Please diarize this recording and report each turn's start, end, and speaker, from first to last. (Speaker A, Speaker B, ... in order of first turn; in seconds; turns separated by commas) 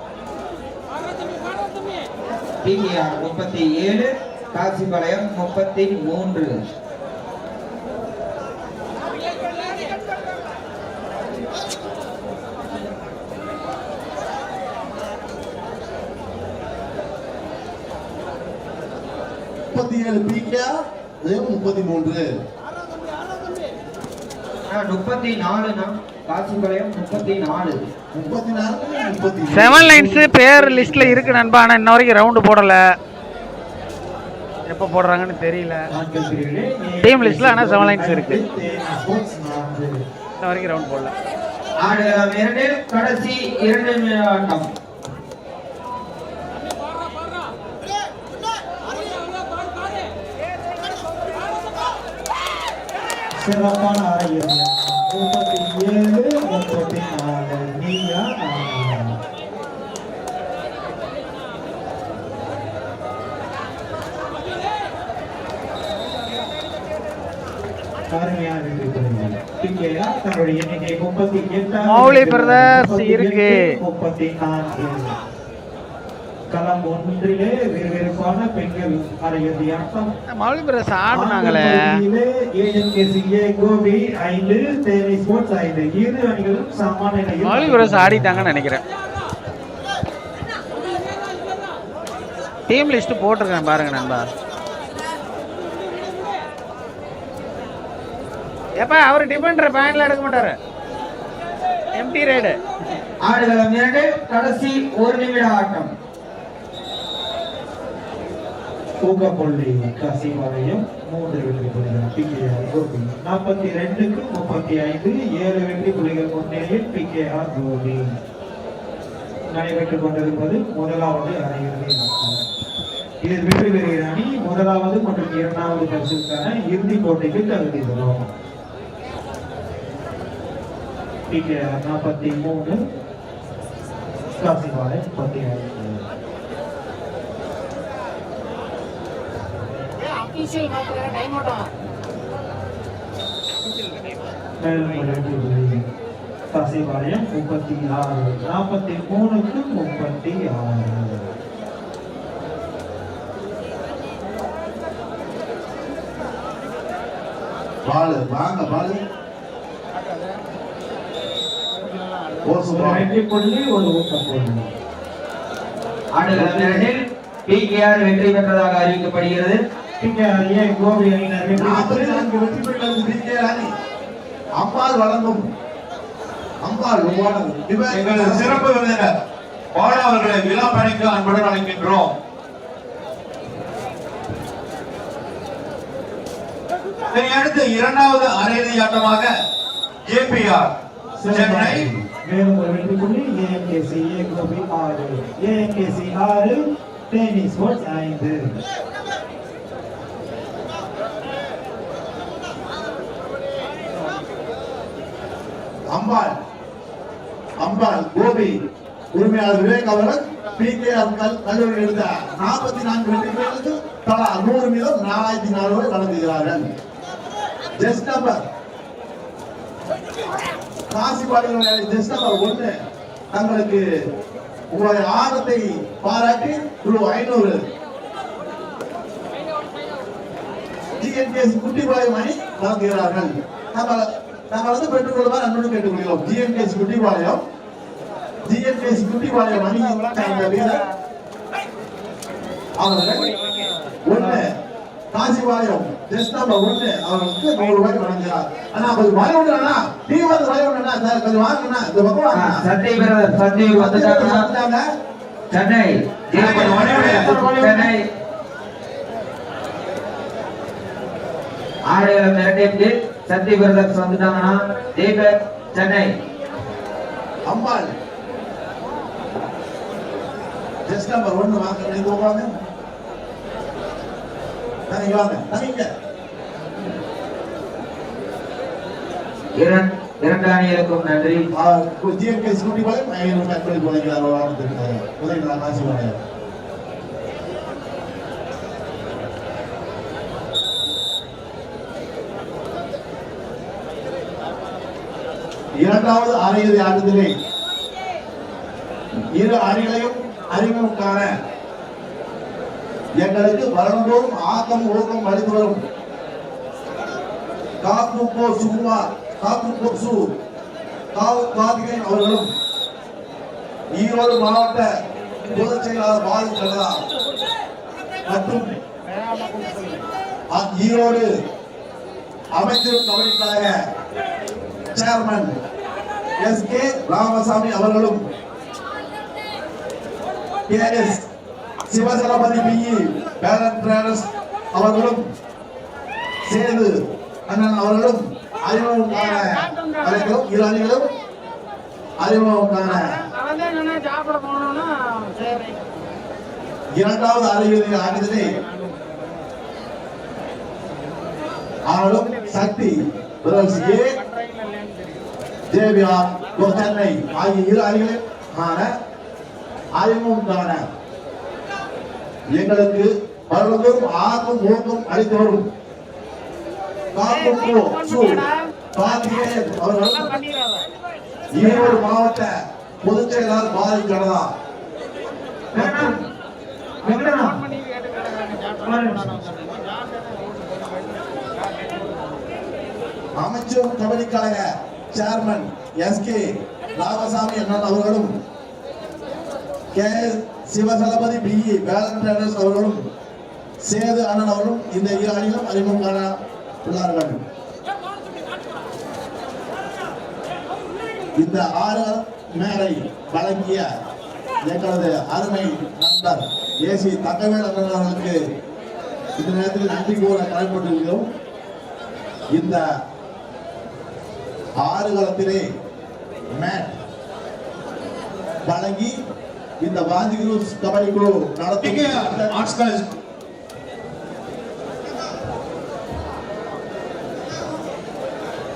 Speaker A: 2.6-6.6, Speaker B: 19.7-22.3, Speaker A: 24.7-27.8, Speaker B: 28.1-30.3, Speaker C: 29.5-32.8, Speaker D: 30.2-31.4, Speaker C: 34.7-35.9, Speaker D: 35.9-40.0, Speaker C: 37.0-38.4, Speaker C: 40.4-41.1, Speaker A: 41.8-44.7, Speaker D: 53.4-59.2, Speaker D: 68.1-75.2, Speaker C: 71.8-73.7, Speaker D: 76.5-80.1, Speaker C: 80.3-81.9, Speaker D: 81.1-88.5, Speaker C: 87.4-88.8, Speaker C: 92.7-94.3, Speaker C: 98.8-100.6, Speaker C: 101.9-102.6, Speaker A: 103.2-105.9, Speaker D: 109.0-118.2, Speaker D: 119.5-122.5, Speaker D: 123.2-128.3, Speaker D: 131.3-132.8, Speaker D: 134.4-136.0, Speaker C: 140.0-141.7, Speaker D: 144.6-145.9, Speaker D: 146.5-151.3, Speaker B: 157.8-159.0, Speaker C: 159.9-160.4, Speaker C: 161.7-162.5, Speaker B: 162.4-163.1, Speaker D: 162.7-164.7, Speaker A: 166.2-169.6, Speaker D: 166.3-166.9, Speaker D: 170.0-172.2, Speaker B: 171.6-173.7, Speaker B: 174.6-175.5, Speaker B: 176.6-178.6, Speaker E: 177.9-179.1, Speaker E: 179.7-182.2, Speaker E: 187.1-189.3, Speaker E: 190.1-190.7, Speaker D: 191.2-196.6, Speaker E: 191.3-191.9, Speaker D: 197.1-198.6, Speaker B: 205.9-206.3, Speaker B: 207.6-208.6, Speaker B: 209.1-216.7, Speaker B: 217.8-218.4, Speaker B: 220.9-222.7, Speaker B: 223.3-223.8, Speaker B: 224.7-227.6, Speaker B: 231.0-237.4, Speaker B: 238.4-240.8, Speaker C: 239.7-240.9, Speaker B: 242.8-243.3, Speaker C: 243.2-243.7, Speaker B: 244.1-244.5, Speaker B: 245.1-252.7, Speaker A: 252.3-254.5, Speaker B: 253.7-254.9, Speaker A: 255.5-258.1, Speaker E: 256.3-257.4, Speaker D: 256.7-257.9, Speaker A: 261.9-266.1, Speaker B: 267.5-267.9, Speaker B: 270.9-272.5, Speaker B: 274.9-275.9, Speaker A: 279.6-281.5, Speaker B: 281.5-286.2, Speaker B: 295.8-297.3, Speaker B: 299.4-301.3, Speaker B: 303.2-305.8, Speaker B: 307.8-310.3, Speaker B: 311.1-312.5, Speaker B: 313.9-314.9, Speaker B: 315.5-317.1, Speaker B: 318.3-318.8, Speaker C: 319.1-320.1, Speaker B: 320.5-321.3, Speaker B: 322.5-323.8, Speaker B: 324.9-325.6, Speaker B: 326.4-328.2, Speaker B: 330.7-331.3, Speaker B: 331.9-335.2, Speaker B: 336.5-336.9, Speaker B: 337.5-341.1, Speaker C: 339.1-340.4, Speaker B: 342.2-343.1, Speaker C: 342.9-345.9, Speaker B: 346.9-348.5, Speaker C: 348.3-349.4, Speaker C: 351.8-352.8, Speaker B: 351.9-354.1, Speaker C: 353.5-355.3, Speaker B: 355.7-358.9, Speaker B: 359.9-360.9, Speaker B: 362.5-365.7, Speaker B: 367.1-370.4, Speaker C: 367.2-368.7, Speaker C: 369.9-370.9, Speaker B: 371.5-372.5, Speaker B: 373.0-374.5, Speaker D: 375.8-376.2, Speaker B: 375.8-376.2, Speaker C: 377.0-382.6, Speaker D: 377.0-377.6, Speaker D: 378.9-379.4, Speaker B: 383.4-388.3, Speaker B: 389.9-393.1, Speaker B: 393.8-397.4, Speaker B: 401.4-403.9, Speaker B: 404.7-408.4, Speaker B: 409.4-411.3, Speaker B: 412.5-412.8, Speaker B: 414.8-415.7, Speaker B: 416.6-417.0, Speaker B: 418.6-419.1, Speaker B: 419.8-422.6, Speaker E: 421.8-423.1